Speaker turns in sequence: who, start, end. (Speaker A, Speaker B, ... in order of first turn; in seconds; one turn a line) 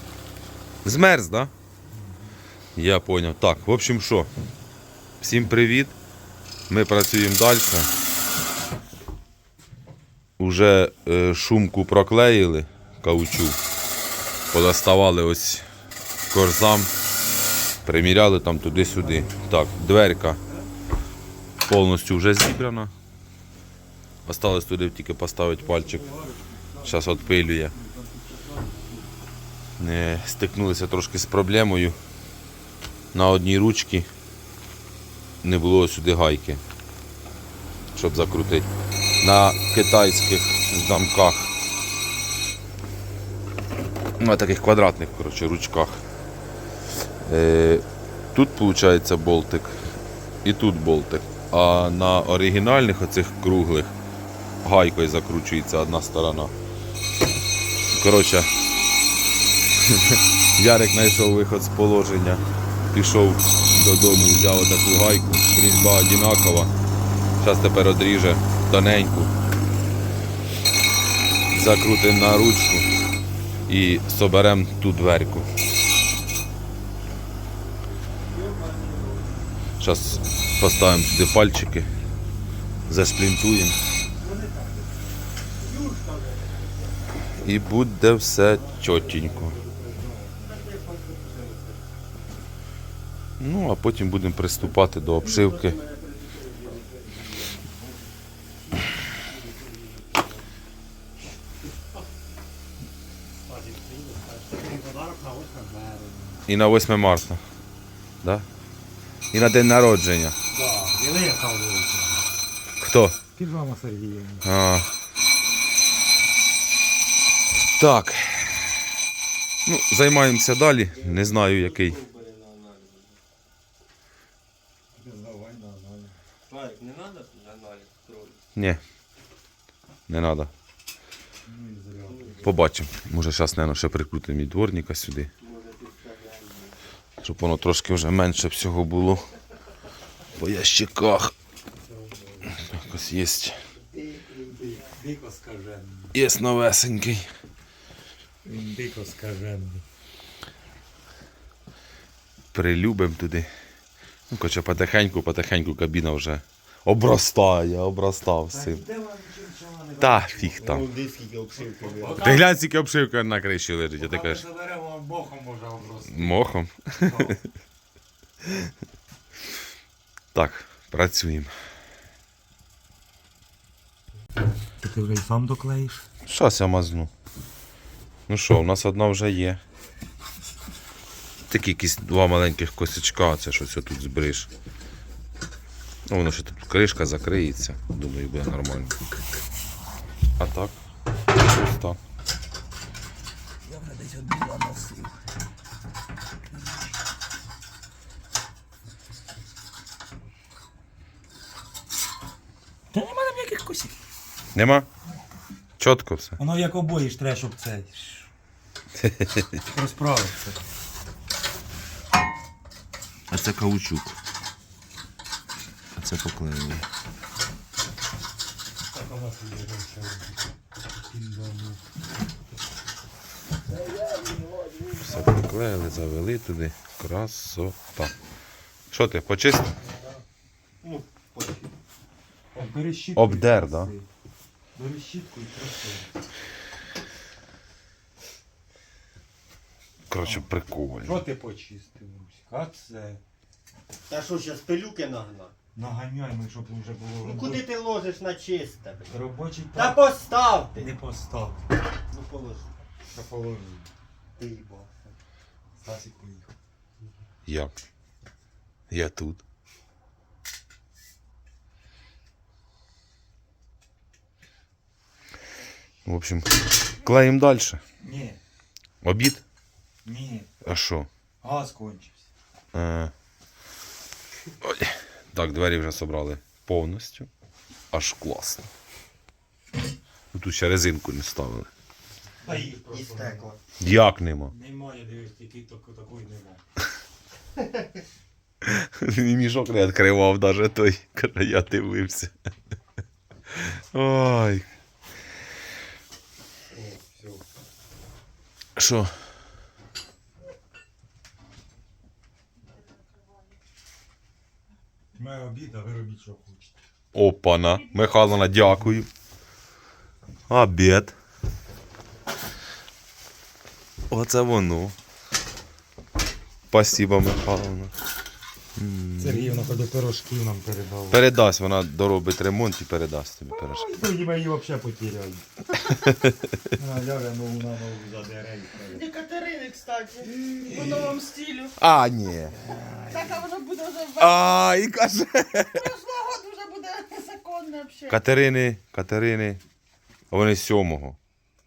Speaker A: 0.8-1.5
Speaker B: 1.9-2.2
Speaker A: 2.8-4.3
Speaker A: 5.2-6.0
Speaker A: 6.7-7.9
Speaker A: 10.4-13.6
Speaker A: 14.5-15.7
Speaker A: 16.3-16.9
Speaker A: 17.9-20.4
Speaker A: 21.7-22.9
Speaker A: 24.3-26.1
Speaker B: 25.6-29.1
Speaker A: 26.8-27.7
Speaker A: 29.8-32.0
Speaker A: 33.1-34.1
Speaker A: 35.4-36.6
Speaker A: 37.9-38.7
Speaker A: 39.2-41.5
Speaker A: 44.2-46.0
Speaker A: 47.2-49.9
Speaker A: 50.4-54.0
Speaker A: 54.6-56.5
Speaker A: 57.9-58.5
Speaker A: 59.8-66.7
Speaker A: 67.4-69.3
Speaker A: 71.5-72.9
Speaker A: 73.7-75.5
Speaker C: 78.3-79.5
Speaker A: 79.8-81.9
Speaker A: 82.9-83.8
Speaker B: 84.2-84.9
Speaker C: 85.6-87.0
Speaker A: 87.4-89.5
Speaker B: 88.6-90.7
Speaker C: 90.4-91.8
Speaker A: 93.4-95.8
Speaker C: 95.0-97.2
Speaker B: 97.5-98.0
Speaker C: 99.4-100.2
Speaker B: 103.5-106.4
Speaker C: 103.7-104.5
Speaker A: 106.5-107.4
Speaker A: 109.3-110.4
Speaker B: 110.5-112.2
Speaker A: 112.8-113.2
Speaker B: 113.4-114.5
Speaker A: 114.4-114.9
Speaker A: 117.8-118.7
Speaker A: 119.7-122.0
Speaker C: 120.9-123.2
Speaker B: 125.0-126.2
Speaker C: 126.5-128.4
Speaker A: 128.6-128.8
Speaker A: 130.1-130.5
Speaker B: 131.5-132.4
Speaker C: 132.1-132.5
Speaker A: 132.4-135.3
Speaker C: 135.4-136.8
Speaker A: 137.2-139.2
Speaker A: 140.4-141.3
Speaker A: 142.6-143.6
Speaker C: 143.9-144.8
Speaker B: 144.4-146.1
Speaker A: 146.1-147.3
Speaker B: 148.4-149.8
Speaker A: 152.5-153.5
Speaker A: 154.3-158.8
Speaker B: 158.5-160.8
Speaker A: 160.0-160.8
Speaker C: 160.6-162.3
Speaker B: 161.9-162.5
Speaker A: 162.2-164.4
Speaker B: 164.0-166.4
Speaker A: 166.1-167.4
Speaker B: 167.0-167.4
Speaker A: 170.3-171.5
Speaker B: 174.8-176.1
Speaker A: 176.2-177.1
Speaker A: 178.3-179.6
Speaker A: 181.5-184.5
Speaker A: 186.1-188.9
Speaker A: 190.4-190.8
Speaker A: 191.4-192.0
Speaker B: 193.6-195.1
Speaker B: 202.9-203.9
Speaker A: 204.6-204.9
Speaker A: 205.8-206.4
Speaker B: 206.4-208.2
Speaker A: 208.9-209.6
Speaker B: 209.7-210.6
Speaker A: 213.3-214.2
Speaker A: 216.0-216.8
Speaker B: 218.9-220.3
Speaker B: 221.1-221.8
Speaker B: 223.7-225.2
Speaker A: 225.0-228.1
Speaker A: 228.9-229.7
Speaker C: 230.8-231.7
Speaker B: 232.5-234.1
Speaker A: 233.2-233.9
Speaker B: 234.8-236.2
Speaker A: 240.1-241.2
Speaker B: 241.0-243.2
Speaker C: 244.1-245.5
Speaker B: 245.8-247.7
Speaker C: 247.2-249.1
Speaker B: 249.1-250.1
Speaker C: 249.7-250.9
Speaker B: 250.8-251.6
Speaker C: 252.1-252.7
Speaker B: 253.1-253.9
Speaker C: 254.4-255.1
Speaker B: 255.8-256.5
Speaker A: 257.5-257.7
Speaker A: 258.9-259.4
Speaker A: 266.1-267.8
Speaker B: 268.0-268.4
Speaker A: 269.0-269.4
Speaker B: 270.1-270.5
Speaker A: 270.6-271.1
Speaker B: 271.4-272.2
Speaker A: 272.7-273.1
Speaker A: 274.6-277.3
Speaker A: 277.9-278.7
Speaker A: 280.3-281.7
Speaker B: 282.4-283.5
Speaker C: 282.5-283.6
Speaker A: 283.8-284.5
Speaker B: 284.5-286.6
Speaker A: 288.6-292.3
Speaker A: 293.6-294.7
Speaker B: 296.7-297.4
Speaker A: 298.8-299.1
Speaker B: 305.1-306.7
Speaker A: 307.1-309.1
Speaker A: 310.5-311.1
Speaker A: 314.1-314.9
Speaker A: 316.7-317.9
Speaker A: 318.8-319.5
Speaker B: 319.2-321.2
Speaker A: 321.1-323.9
Speaker B: 323.6-325.4
Speaker A: 325.9-326.6
Speaker B: 326.7-329.1
Speaker D: 328.9-331.8
Speaker B: 330.2-331.2
Speaker A: 331.8-332.6
Speaker B: 332.6-333.4
Speaker D: 333.1-334.5
Speaker A: 334.2-335.9
Speaker D: 335.7-338.2
Speaker A: 338.1-339.6
Speaker A: 340.3-341.2